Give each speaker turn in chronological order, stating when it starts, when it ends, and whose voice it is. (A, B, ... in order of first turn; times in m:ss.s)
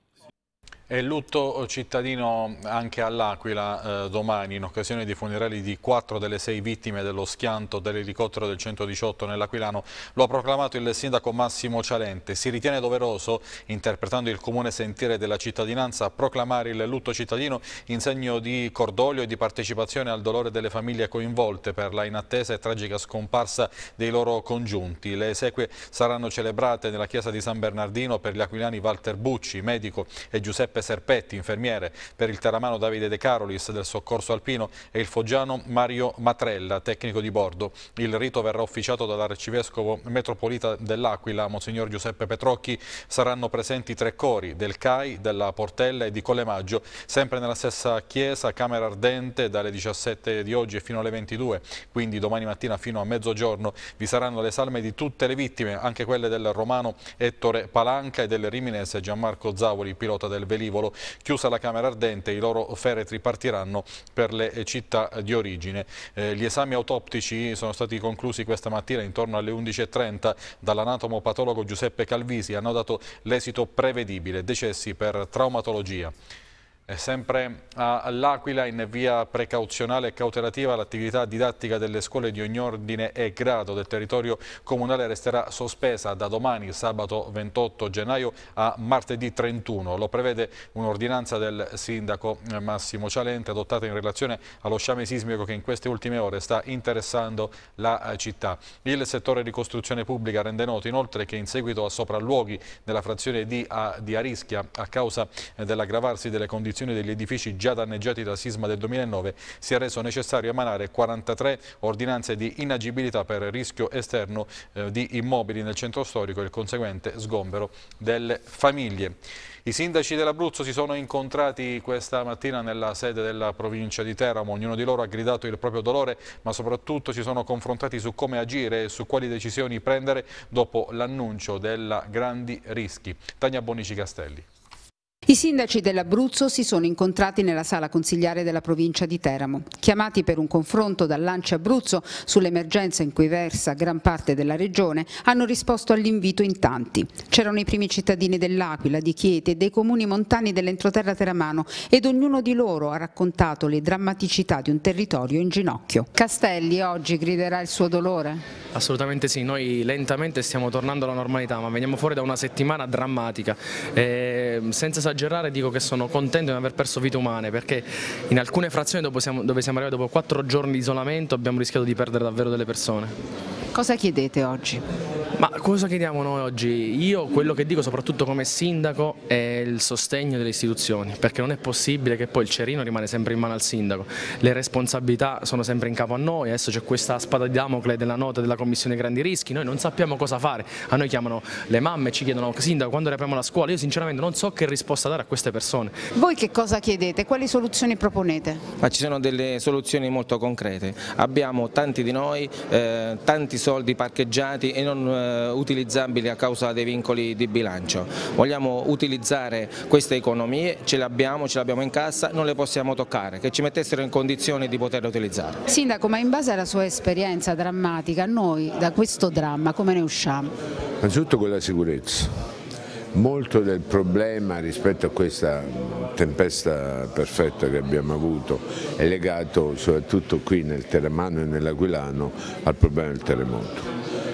0:00.9-1:16.1 A
1:16.9-2:14.4 A
2:15.3-2:38.4 B
2:38.7-2:53.1 C
2:53.7-2:54.8 B
2:55.4-3:16.0 C
3:16.1-3:18.6 B
3:18.8-3:35.6 D
3:35.7-3:40.5 B
3:41.0-3:42.4 E
3:43.1-3:53.9 E